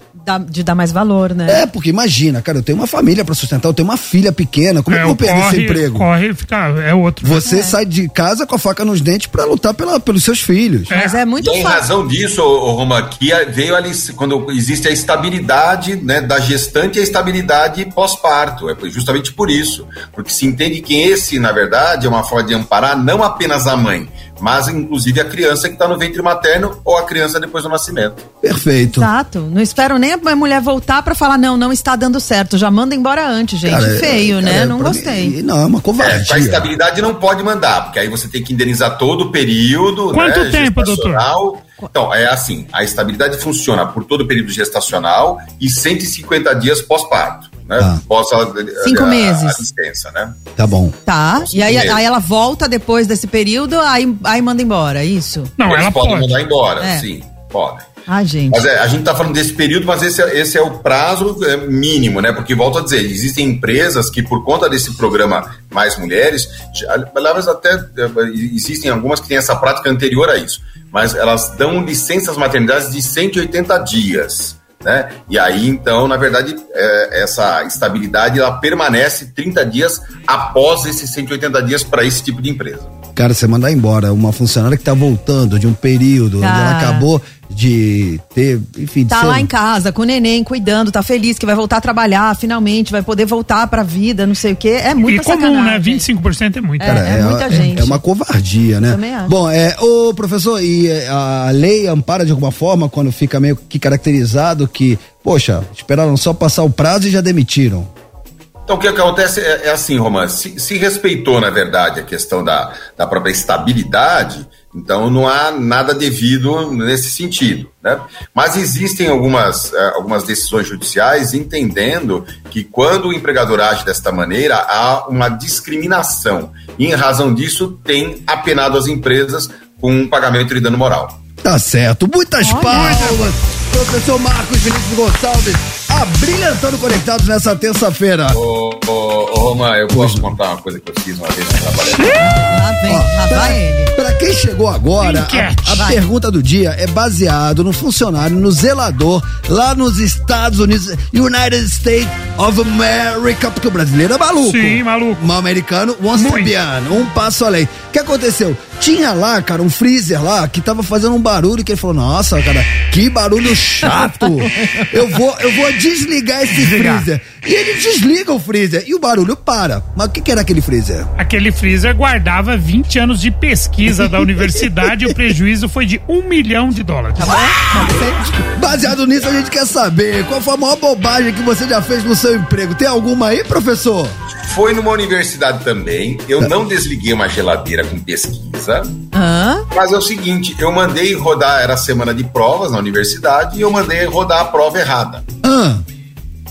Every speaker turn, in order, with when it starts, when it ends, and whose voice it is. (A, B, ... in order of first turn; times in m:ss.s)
0:00.2-0:01.6 A
0:01.5-0:06.1 B
0:04.9-0:07.5 C
0:07.2-0:10.9 B
0:07.4-0:07.8 A
0:10.9-0:11.2 C
0:10.9-0:11.9 A
0:11.4-0:28.3 D
0:28.4-0:29.1 B
0:28.9-0:35.4 A
0:33.6-0:36.7 B
0:36.0-0:50.5 D
0:40.1-0:41.3 C
0:48.8-0:49.6 A
0:50.6-0:51.0 B
0:51.1-0:55.5 A
0:51.4-0:52.0 D
0:55.6-0:56.4 C
0:55.6-0:57.9 D
0:56.8-0:57.1 A
0:58.1-0:58.7 A
0:58.5-1:23.0 D
1:23.2-1:29.5 B
1:26.4-1:27.1 A
1:29.1-1:36.1 A
1:35.0-1:37.0 C
1:36.8-1:38.0 A
1:36.8-1:47.9 B
1:38.9-1:39.4 A
1:48.7-2:11.2 D
2:11.4-2:18.4 B
2:12.4-2:13.1 A
2:12.7-2:13.2 C
2:18.3-2:22.2 D
2:19.9-2:20.3 B
2:22.0-2:22.2 C
2:22.2-2:23.9 A
2:22.9-2:51.1 B
2:25.0-2:25.9 C
2:25.7-2:26.0 A
2:34.4-2:35.2 C
2:36.2-2:36.5 C
2:46.5-2:47.1 C
2:51.2-2:57.5 C
2:53.9-2:55.2 B
2:57.2-2:58.4 A
2:58.4-3:04.2 B
3:04.3-3:09.0 D
3:09.1-3:09.7 A
3:09.7-3:15.3 D
3:15.4-3:15.8 B